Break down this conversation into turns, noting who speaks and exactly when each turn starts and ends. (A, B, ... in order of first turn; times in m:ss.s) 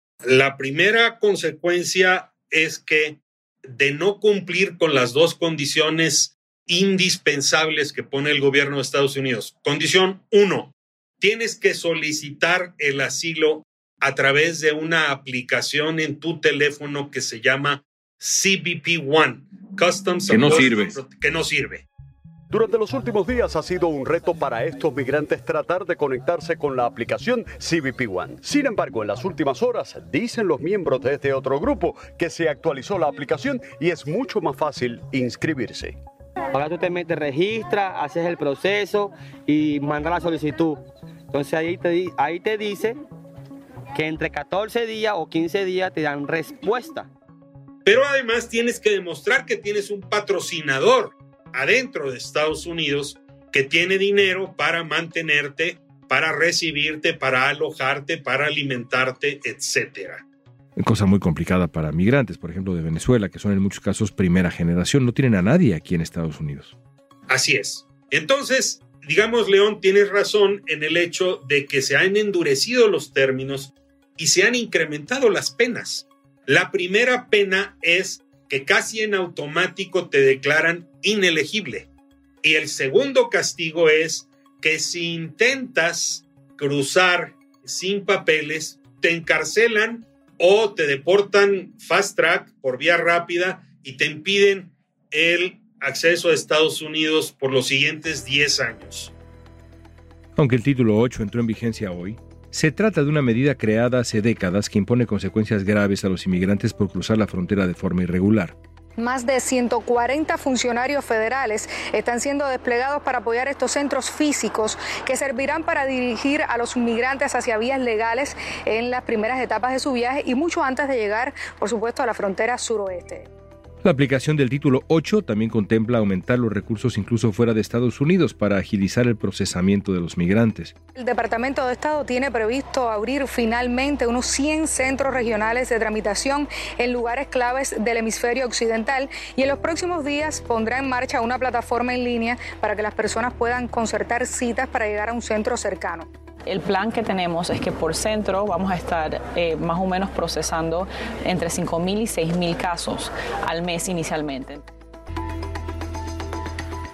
0:00.2-0:21.8 A
0:20.3-0:21.0 B
0:22.5-0:36.0 C
0:36.5-0:43.0 D
0:43.9-0:47.1 D
0:47.8-1:00.2 A
1:00.8-1:06.7 B
1:07.3-1:21.9 A
1:22.4-1:39.1 A
1:40.4-1:48.5 B
1:49.0-2:03.3 E
2:03.8-2:10.7 B
2:10.9-2:26.1 E
2:26.4-2:34.6 F